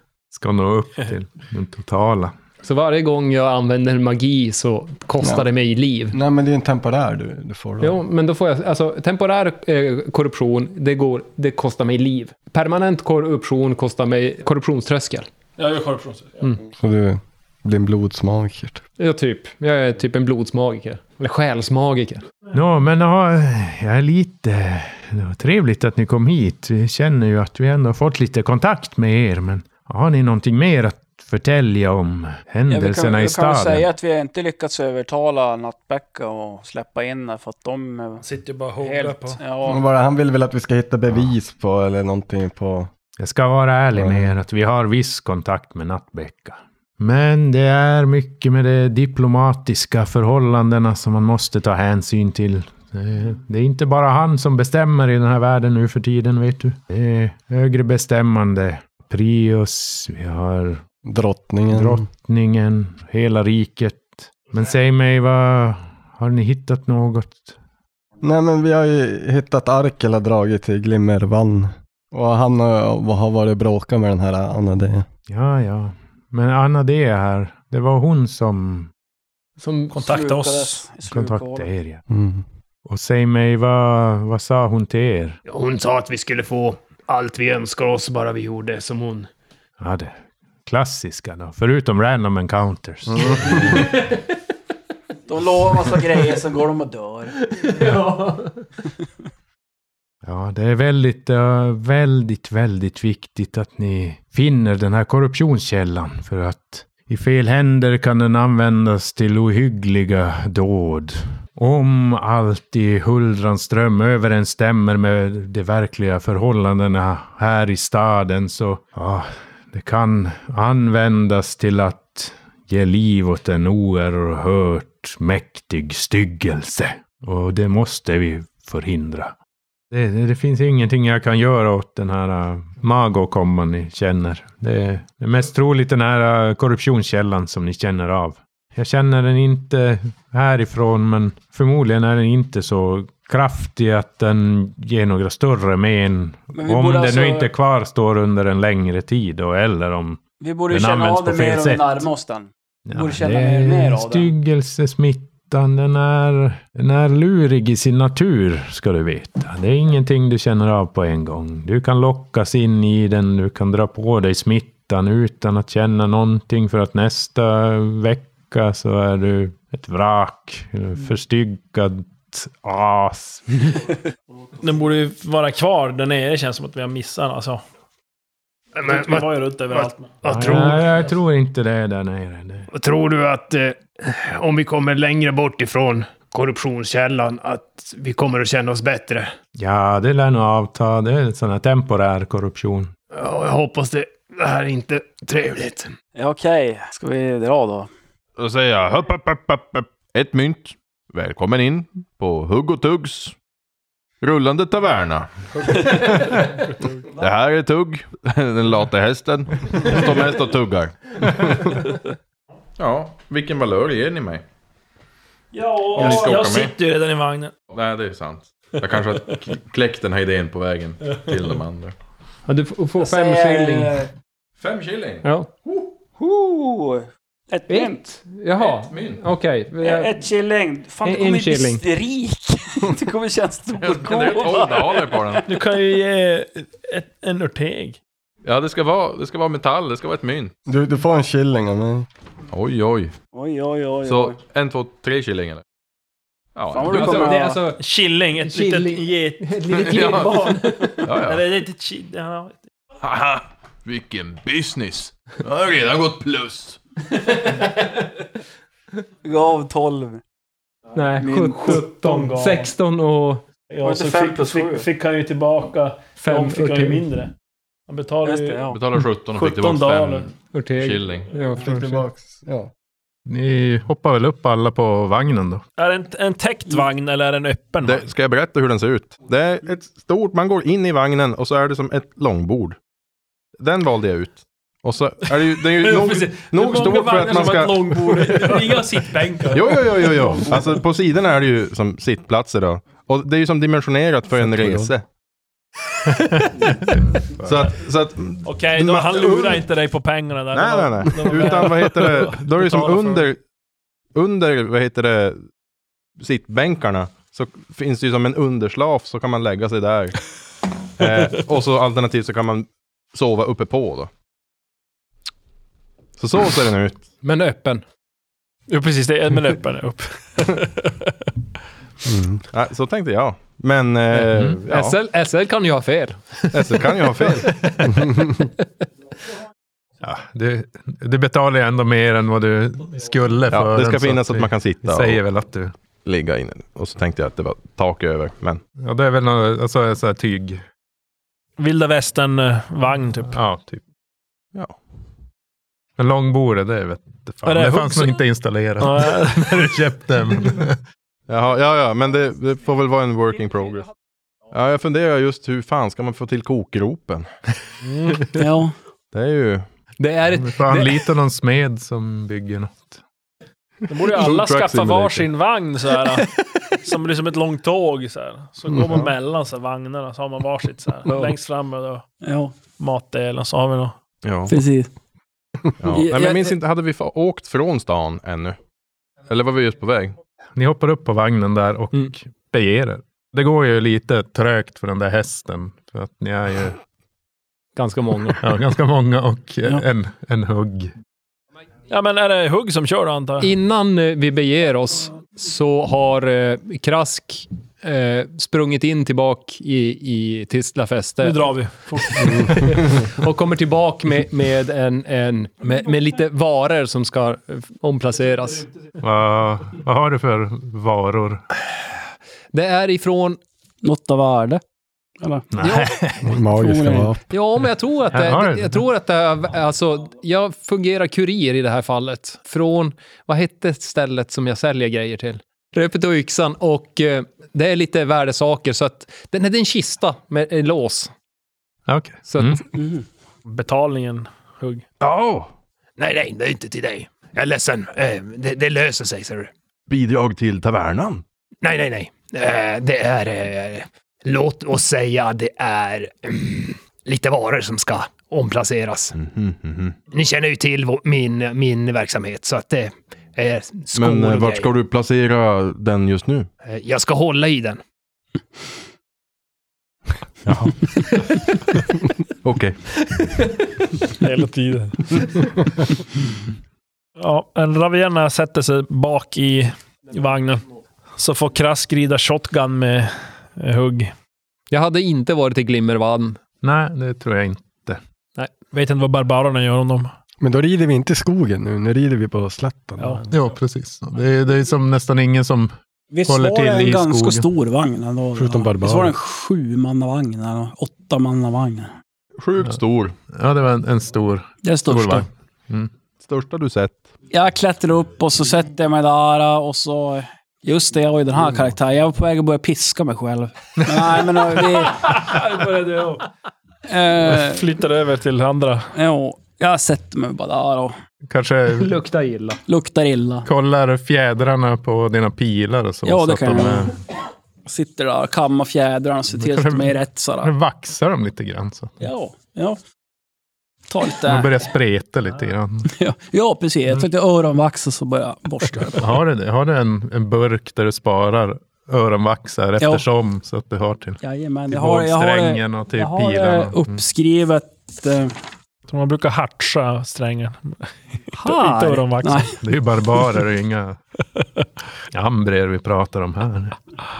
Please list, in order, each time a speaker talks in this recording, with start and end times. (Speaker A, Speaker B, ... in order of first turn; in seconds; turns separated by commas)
Speaker A: 0.3-2.3, Speaker B: 2.6-6.2, Speaker C: 5.2-5.5, Speaker C: 6.1-8.0, Speaker B: 7.8-15.3, Speaker D: 15.6-16.4, Speaker C: 16.7-18.8, Speaker B: 19.0-22.2, Speaker A: 22.5-33.9, Speaker E: 32.7-38.2, Speaker D: 38.2-39.4, Speaker E: 38.8-39.8, Speaker C: 39.6-42.9, Speaker A: 43.2-60.8, Speaker C: 43.9-44.3, Speaker C: 61.0-62.0, Speaker A: 61.7-67.5, Speaker C: 68.2-75.1, Speaker A: 75.3-78.9, Speaker B: 79.6-80.0, Speaker D: 79.9-80.8, Speaker E: 80.0-81.7, Speaker A: 81.1-82.0, Speaker C: 82.1-82.4, Speaker A: 82.9-85.4, Speaker F: 85.5-89.3, Speaker A: 89.8-90.2, Speaker A: 90.7-93.9, Speaker E: 95.3-97.3, Speaker B: 97.7-98.5, Speaker A: 100.2-129.3, Speaker A: 129.9-152.1, Speaker E: 146.5-147.5, Speaker E: 150.4-154.3, Speaker A: 152.9-173.8, Speaker D: 174.6-177.6, Speaker F: 178.8-180.9, Speaker D: 178.8-180.2, Speaker A: 180.2-182.7, Speaker F: 182.7-189.3, Speaker A: 189.6-192.9, Speaker F: 193.1-195.9, Speaker E: 196.2-197.9, Speaker G: 198.4-203.4, Speaker G: 204.2-206.4, Speaker G: 207.1-211.8, Speaker G: 212.8-214.4, Speaker D: 215.5-217.5, Speaker G: 215.9-216.8, Speaker G: 217.7-222.0, Speaker B: 222.5-224.1, Speaker E: 223.0-224.1, Speaker G: 224.6-225.9, Speaker B: 225.2-225.5, Speaker E: 226.2-228.0, Speaker B: 227.7-230.2, Speaker G: 228.6-229.2, Speaker E: 229.8-235.4, Speaker B: 231.0-231.8, Speaker G: 233.8-235.4, Speaker D: 235.5-238.0, Speaker G: 238.4-240.5, Speaker C: 240.7-242.1, Speaker G: 242.5-243.1, Speaker E: 243.3-244.4, Speaker G: 244.1-245.6, Speaker G: 246.6-247.3, Speaker E: 246.7-247.6, Speaker B: 246.9-247.8, Speaker D: 247.8-252.6, Speaker B: 248.4-251.1, Speaker G: 249.8-250.3, Speaker G: 251.1-251.4, Speaker G: 253.0-256.8, Speaker E: 259.2-260.2, Speaker B: 260.9-263.4, Speaker E: 261.2-261.8, Speaker D: 261.6-262.7, Speaker D: 263.7-267.3, Speaker E: 263.8-264.9, Speaker B: 266.2-267.0, Speaker D: 267.9-268.6, Speaker E: 268.2-268.8, Speaker G: 268.7-271.3, Speaker D: 269.3-270.3, Speaker B: 270.5-272.0, Speaker C: 271.6-272.7, Speaker A: 273.3-275.6, Speaker D: 275.8-278.1, Speaker G: 277.8-282.8, Speaker G: 283.6-288.3, Speaker D: 285.4-290.7, Speaker G: 289.5-295.1, Speaker C: 294.4-294.9, Speaker A: 296.3-296.5, Speaker A: 297.2-297.6, Speaker G: 297.4-299.6, Speaker D: 298.4-303.3, Speaker G: 300.5-303.4, Speaker G: 304.1-305.4, Speaker G: 306.2-310.2, Speaker G: 311.0-314.1, Speaker G: 316.2-317.1, Speaker B: 317.2-317.8, Speaker D: 318.7-321.1, Speaker C: 322.1-322.4, Speaker G: 322.5-325.0, Speaker B: 324.2-326.5, Speaker G: 326.5-327.5, Speaker A: 330.0-335.7, Speaker G: 333.5-335.2, Speaker G: 336.0-338.6, Speaker A: 338.8-340.6, Speaker D: 341.6-343.4, Speaker A: 343.3-343.8, Speaker A: 346.0-350.8, Speaker D: 347.4-348.2, Speaker D: 348.8-349.7, Speaker G: 351.3-353.9, Speaker G: 354.5-357.3, Speaker E: 358.4-358.7, Speaker G: 359.1-359.7, Speaker B: 360.0-361.0, Speaker A: 360.3-363.0, Speaker D: 363.9-372.1, Speaker G: 364.1-365.3, Speaker E: 372.2-372.5, Speaker D: 372.8-373.9, Speaker G: 374.2-374.6, Speaker E: 374.5-374.9, Speaker G: 375.8-378.6, Speaker E: 375.9-376.5, Speaker G: 379.3-380.2, Speaker A: 380.6-386.8, Speaker B: 387.8-388.4, Speaker A: 388.4-390.9, Speaker D: 391.9-393.5, Speaker B: 393.4-408.7, Speaker D: 401.2-402.6, Speaker A: 409.0-411.4, Speaker B: 412.5-413.4, Speaker E: 413.8-414.6, Speaker E: 415.2-415.9, Speaker A: 415.5-416.3, Speaker C: 416.2-417.2, Speaker E: 416.5-417.1, Speaker B: 417.3-431.1, Speaker A: 418.1-418.8, Speaker A: 431.9-432.6, Speaker B: 432.3-432.6, Speaker E: 432.8-433.0, Speaker D: 433.5-434.9, Speaker G: 435.0-435.5, Speaker F: 436.0-439.5, Speaker G: 439.9-441.2, Speaker F: 441.6-449.1, Speaker G: 449.1-450.0, Speaker F: 450.1-454.7, Speaker G: 453.9-456.5, Speaker F: 456.6-457.8, Speaker G: 460.5-460.7, Speaker G: 462.4-462.8, Speaker D: 464.2-465.2, Speaker D: 467.2-470.6, Speaker D: 471.2-474.1, Speaker B: 474.7-476.4, Speaker A: 476.6-478.0, Speaker D: 478.7-480.1, Speaker C: 480.4-483.3, Speaker A: 483.3-485.7, Speaker E: 486.1-491.9, Speaker A: 486.3-487.5, Speaker C: 488.3-489.2, Speaker G: 492.4-493.2, Speaker A: 493.3-495.9, Speaker E: 494.6-495.3, Speaker G: 496.2-497.1, Speaker E: 497.3-505.2, Speaker A: 503.8-504.1, Speaker D: 505.0-506.3, Speaker E: 506.9-507.6, Speaker D: 507.2-508.9, Speaker E: 508.9-511.0, Speaker A: 511.3-511.9, Speaker B: 511.8-512.6, Speaker E: 512.7-513.5, Speaker A: 513.5-517.0, Speaker E: 516.0-517.0, Speaker E: 517.7-520.5, Speaker A: 519.3-521.9, Speaker E: 522.0-522.8, Speaker E: 523.9-524.7, Speaker A: 524.3-525.9, Speaker E: 525.9-529.2, Speaker A: 529.0-537.0, Speaker E: 532.8-533.0, Speaker E: 534.2-538.3, Speaker D: 538.9-542.5, Speaker E: 541.4-542.5, Speaker A: 542.6-544.0, Speaker A: 545.1-546.8